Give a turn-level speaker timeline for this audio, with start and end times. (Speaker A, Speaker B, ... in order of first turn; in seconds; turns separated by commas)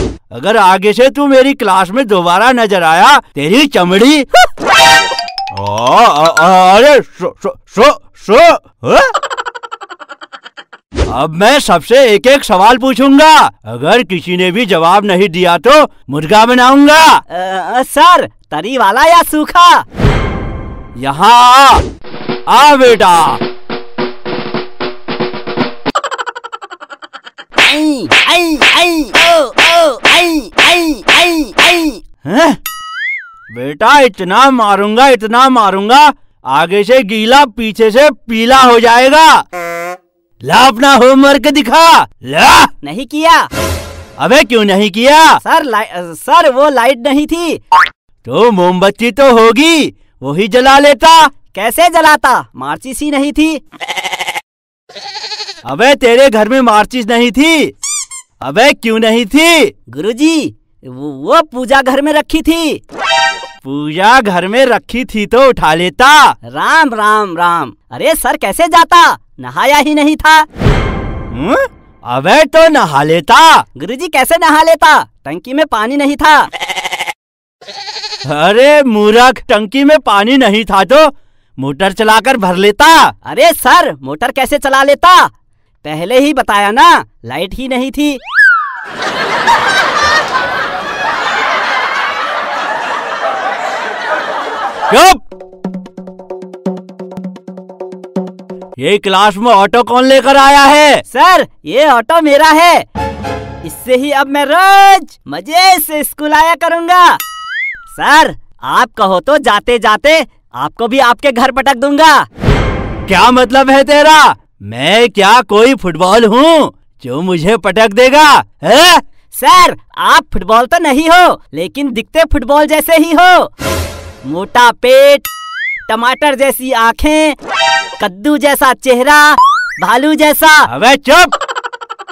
Speaker A: 0.3-4.3, Speaker A: 5.5-9.1, Speaker A: 11.1-17.2, Speaker B: 17.3-19.8, Speaker A: 21.0-21.8, Speaker A: 22.5-23.4, Speaker B: 27.6-32.0, Speaker A: 32.2-32.6, Speaker A: 33.5-39.4, Speaker A: 40.4-42.7, Speaker B: 42.8-43.5, Speaker A: 44.2-45.4, Speaker B: 45.4-47.6, Speaker A: 48.2-51.3, Speaker B: 51.5-53.6, Speaker A: 55.6-57.7, Speaker A: 58.4-59.7, Speaker B: 59.9-62.8, Speaker A: 63.6-66.3, Speaker B: 66.5-70.5, Speaker A: 71.3-73.6, Speaker B: 73.8-76.5, Speaker A: 78.2-83.1, Speaker B: 83.2-85.3, Speaker B: 85.8-88.2, Speaker A: 94.9-95.2, Speaker A: 98.8-101.0, Speaker B: 101.1-102.8, Speaker B: 103.6-107.2, Speaker B: 107.9-112.2, Speaker A: 113.1-119.0, Speaker B: 119.3-123.5, Speaker B: 124.2-125.3, Speaker B: 125.9-127.3, Speaker B: 128.0-130.7, Speaker A: 130.7-131.3